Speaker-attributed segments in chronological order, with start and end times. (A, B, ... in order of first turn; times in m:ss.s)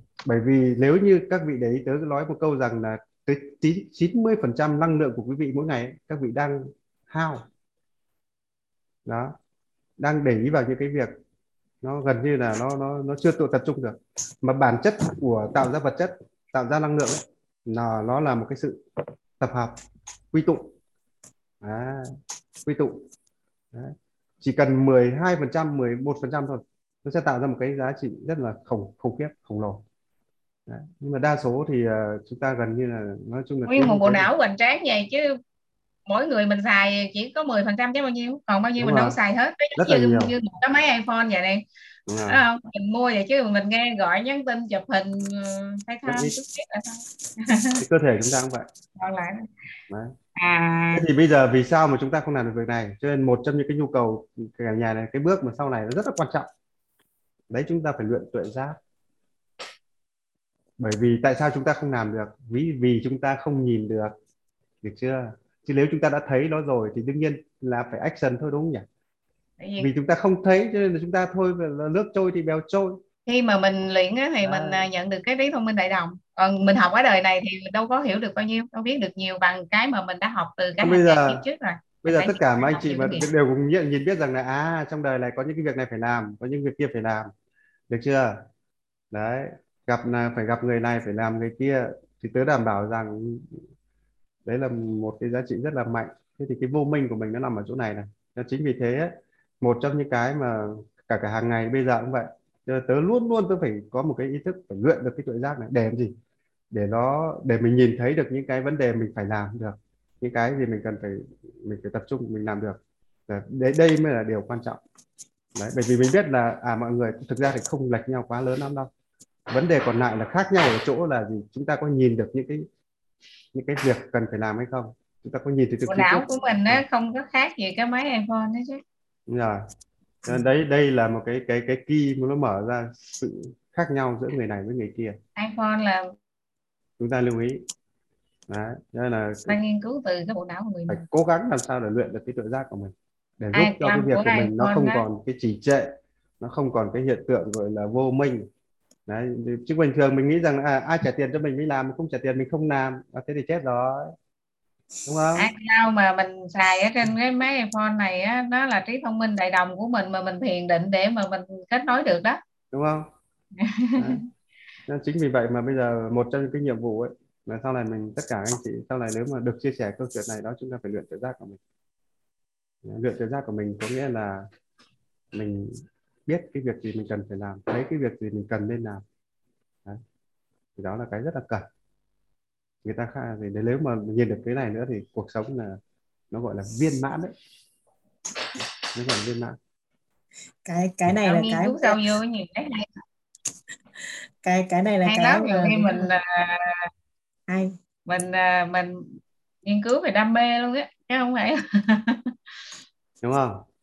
0:00.2-0:07.4 A
0:09.0-0:09.3 A
0:10.0-0:11.2 A
0:11.8-0:18.8 A
0:19.4-0:20.7 A
0:21.6-0:23.0 A
0:23.7-0:29.8 A
0:30.7-0:34.3 A
0:33.7-0:35.4 B
0:36.0-0:41.6 B
0:38.8-0:39.2 A
0:39.8-0:40.3 A
0:42.1-0:42.4 A
0:42.2-0:47.8 B
0:46.1-0:46.3 A
0:47.8-0:48.7 A
0:49.0-0:49.5 B
0:49.9-0:50.2 A
0:50.4-0:51.0 B
0:50.9-0:56.5 A
0:57.5-0:58.8 A
1:00.8-1:04.1 A
1:04.8-1:08.9 A
1:09.6-1:09.9 B
1:09.8-1:13.0 A
1:13.3-1:23.2 B
1:14.4-1:14.8 A
1:20.8-1:21.4 A
1:22.0-1:27.3 A
1:27.9-1:28.4 A
1:29.1-1:33.6 A
1:34.4-1:46.1 A
1:46.7-1:54.8 A
1:55.5-1:58.9 A
1:59.5-2:02.7 A
2:03.5-2:06.8 A
2:05.8-2:08.8 B
2:09.3-2:09.6 A
2:10.2-2:15.2 A
2:15.4-2:16.1 B
2:17.0-2:17.6 A
2:18.5-2:19.6 A
2:19.5-2:21.0 B
2:20.9-2:28.5 A
2:23.5-2:25.0 B
2:29.1-2:34.1 A
2:35.0-2:35.5 A
2:35.4-2:42.4 B
2:42.7-2:43.1 A
2:43.6-2:44.2 B
2:44.0-2:44.2 A
2:44.9-2:51.6 A
2:52.8-2:54.5 A
2:55.3-2:59.0 A
3:00.8-3:01.6 A
3:02.8-3:05.8 A
3:06.3-3:07.3 A
3:08.9-3:09.6 A
3:10.6-3:12.0 C
3:11.2-3:13.0 B
3:14.4-3:16.1 C
3:15.0-3:16.9 B
3:17.5-3:17.7 C
3:18.1-3:19.0 B
3:19.6-3:22.3 B
3:23.2-3:23.6 A